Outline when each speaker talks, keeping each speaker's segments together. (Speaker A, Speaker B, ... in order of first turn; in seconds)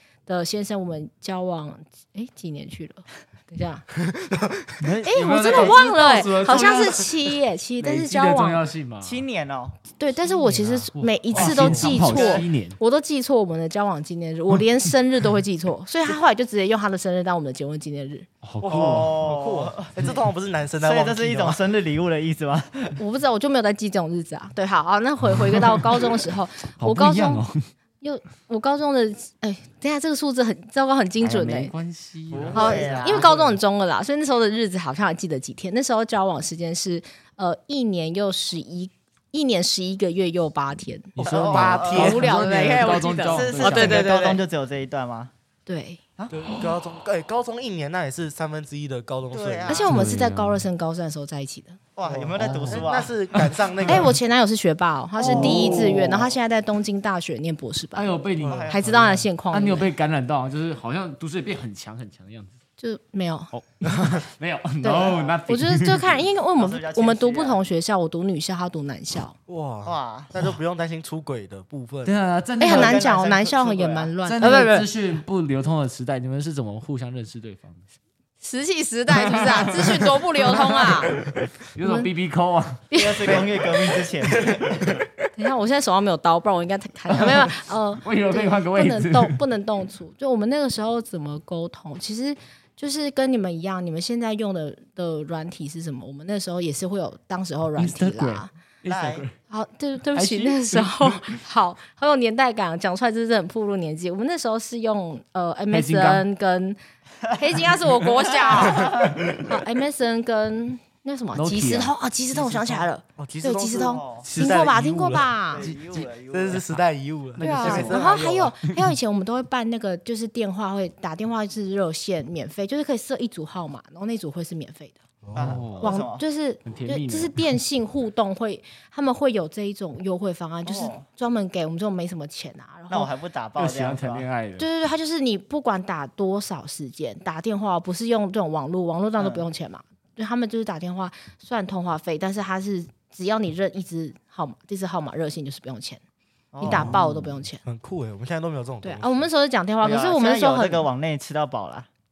Speaker A: 0.2-3.9, 5.0-8.6, 10.0-18.3, 23.0-27.4, 28.0-31.7, 32.5-44.4, 45.6-46.0, 49.7-51.8, 53.8-59.9, 62.8-63.5, 64.8-69.3, 72.6-74.9, 78.4-81.1, 81.8-82.1, 82.9-83.5, 85.3-98.5, 99.5-106.8, 107.3-115.7, 117.4-125.0, 125.8-133.1, 134.6-146.0, 146.6-147.6, 148.8-150.9
Speaker B: 4.1-4.8, 11.3-12.2, 18.6-21.6, 41.7-42.2, 46.3-49.8, 52.0-54.2, 55.4-56.1, 58.4-59.2, 69.5-72.1, 112.3-115.3, 116.3-118.5, 125.2-125.6, 147.6-149.3
Speaker C: 4.8-7.2, 7.8-9.2, 10.4-12.8, 18.4-19.1, 26.8-27.6, 31.2-33.5, 41.2-44.1, 49.8-50.6, 52.4-52.8, 53.3-53.9, 55.3-55.6, 57.9-58.7, 59.5-62.5, 63.5-66.0, 72.0-73.0, 74.2-77.8, 79.1-82.8, 88.0-89.3, 97.8-99.3, 100.1-101.2, 105.7-106.2, 111.3-111.9, 114.2-116.7, 117.4-118.0, 125.4-125.9, 126.6-127.3, 133.5-134.7, 146.7-147.1
Speaker D: 9.0-9.8, 18.7-20.2, 20.8-23.0, 32.3-33.3, 41.2-42.1, 43.2-45.3, 49.3-49.9, 52.0-53.1, 55.2-55.9, 58.5-58.9, 64.9-65.4, 66.6-67.6, 69.8-70.3, 72.6-74.1, 82.9-84.8, 98.9-99.2, 108.6-109.1, 113.8-114.3, 115.5-116.6, 125.3-126.2, 130.6-131.0, 132.9-134.3, 139.2-139.4, 146.5-146.9, 149.8-151.9